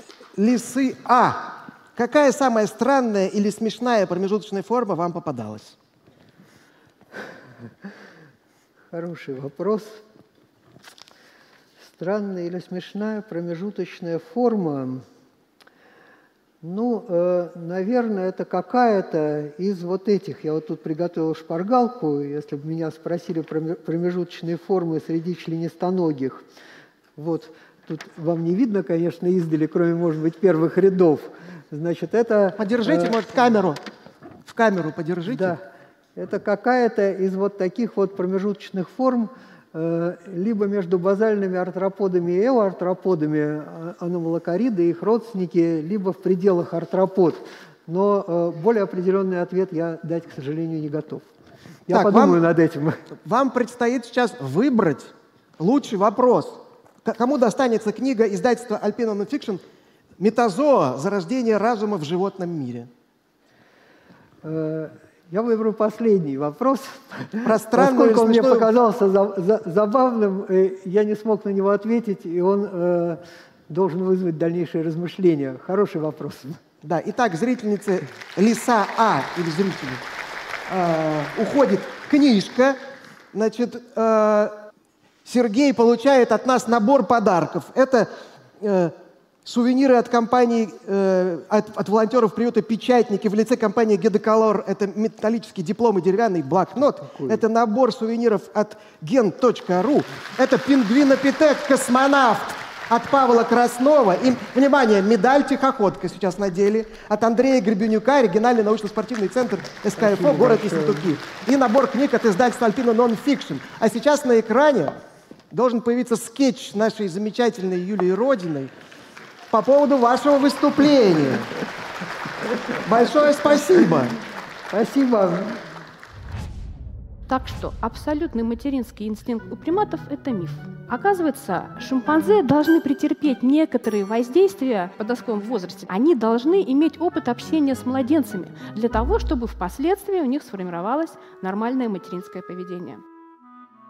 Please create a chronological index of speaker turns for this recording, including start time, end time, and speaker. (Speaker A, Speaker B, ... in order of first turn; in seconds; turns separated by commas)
Speaker A: 0.3-5.8, Speaker B: 8.9-10.0, Speaker B: 11.8-15.0, Speaker B: 16.6-26.4, Speaker B: 27.2-33.3, Speaker A: 32.6-33.8, Speaker A: 34.4-35.6, Speaker B: 35.3-35.6, Speaker B: 36.1-51.2, Speaker B: 51.9-53.0, Speaker A: 51.9-52.4, Speaker A: 53.2-59.6, Speaker A: 60.2-62.9, Speaker B: 64.4-76.6, Speaker A: 67.4-68.7, Speaker A: 76.8-80.0, Speaker A: 80.7-82.8, Speaker A: 83.3-84.5, Speaker A: 85.2-88.1, Speaker A: 88.6-114.9, Speaker B: 97.0-97.4, Speaker B: 110.0-111.2, Speaker A: 115.5-118.7, Speaker A: 119.5-121.5, Speaker A: 122.8-124.2, Speaker B: 124.7-125.6, Speaker C: 127.3-143.0